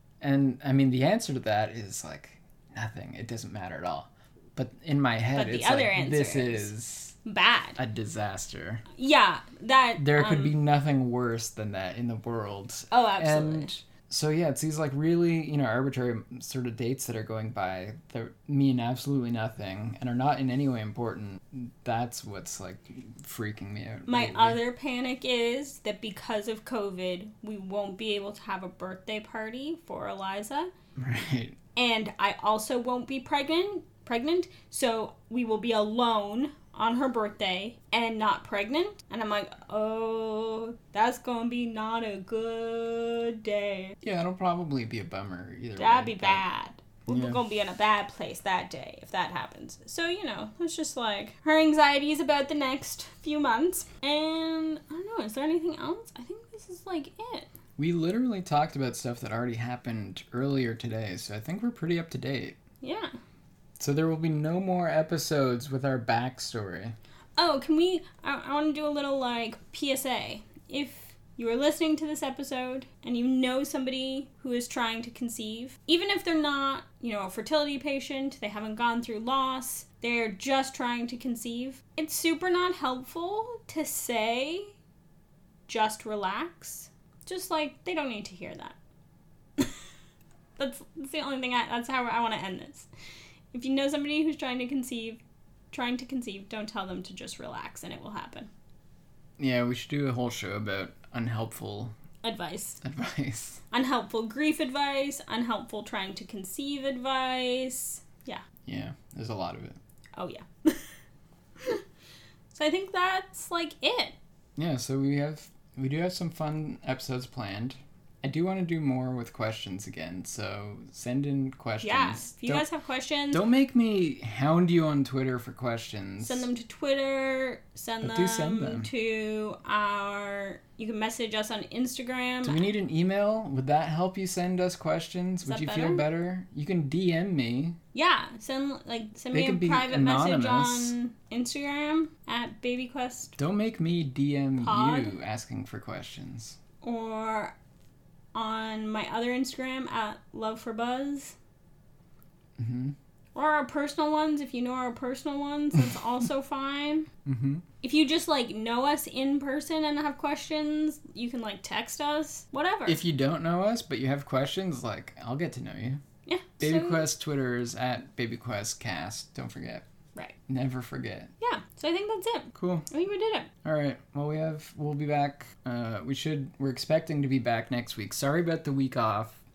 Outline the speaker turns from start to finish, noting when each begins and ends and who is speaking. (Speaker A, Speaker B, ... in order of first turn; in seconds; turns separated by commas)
Speaker A: 0.2-7.1, Speaker B: 5.3-6.7, Speaker B: 7.2-7.8, Speaker A: 7.8-8.8, Speaker B: 9.0-10.5, Speaker A: 10.0-24.6, Speaker B: 12.9-13.7, Speaker B: 24.1-30.7, Speaker A: 30.9-31.6, Speaker B: 31.8-44.0, Speaker A: 44.0-46.4, Speaker B: 45.8-57.5, Speaker A: 47.1-47.4, Speaker A: 57.8-62.6, Speaker B: 62.8-63.1, Speaker A: 63.8-66.9, Speaker B: 67.4-84.7, Speaker B: 85.7-88.8, Speaker B: 90.6-92.9, Speaker B: 93.5-95.2, Speaker B: 95.7-98.5, Speaker A: 99.4-101.9, Speaker B: 102.2-102.8, Speaker A: 102.8-103.6, Speaker B: 103.7-108.4, Speaker A: 108.7-109.8, Speaker B: 110.2-110.9, Speaker B: 112.5-114.2, Speaker A: 114.5-122.6, Speaker B: 121.8-123.4, Speaker A: 123.3-126.5, Speaker B: 126.2-132.6, Speaker A: 128.0-128.9, Speaker A: 132.4-137.8, Speaker B: 135.4-136.1, Speaker B: 137.9-143.3, Speaker A: 139.3-140.9, Speaker A: 143.4-146.6, Speaker B: 144.6-145.1, Speaker B: 146.8-147.5, Speaker B: 148.3-151.3, Speaker A: 152.6-152.9, Speaker B: 153.3-157.1, Speaker A: 157.2-157.6, Speaker B: 157.8-163.0, Speaker A: 162.9-166.0, Speaker B: 166.2-167.1, Speaker A: 166.6-169.8, Speaker A: 170.5-171.3, Speaker B: 171.4-173.5, Speaker A: 172.5-172.9, Speaker A: 173.6-179.4